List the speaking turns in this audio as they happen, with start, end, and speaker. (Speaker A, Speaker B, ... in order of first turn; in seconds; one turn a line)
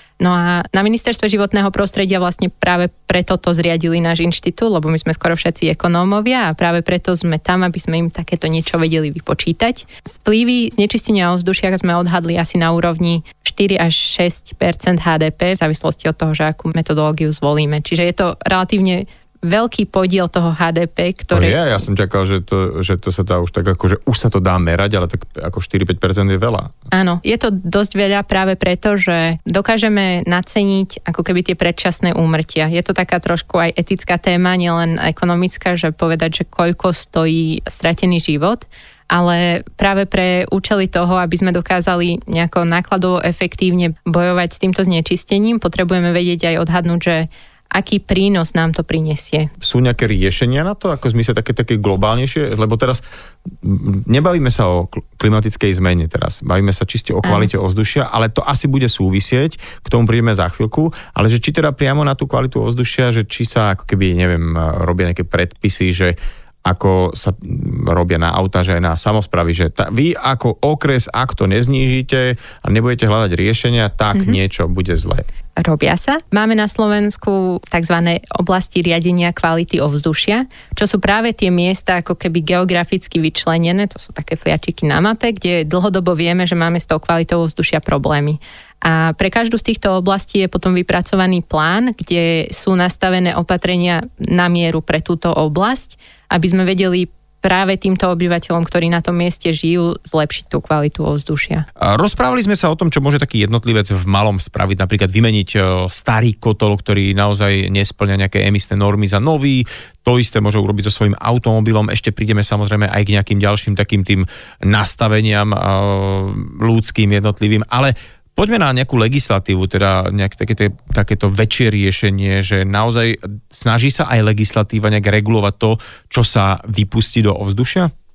Speaker A: 0.2-21.6
Speaker B: 21.3-26.7
Speaker A: 26.9-49.5
Speaker B: 49.6-75.3
Speaker A: 75.6-101.7
Speaker B: 101.8-127.9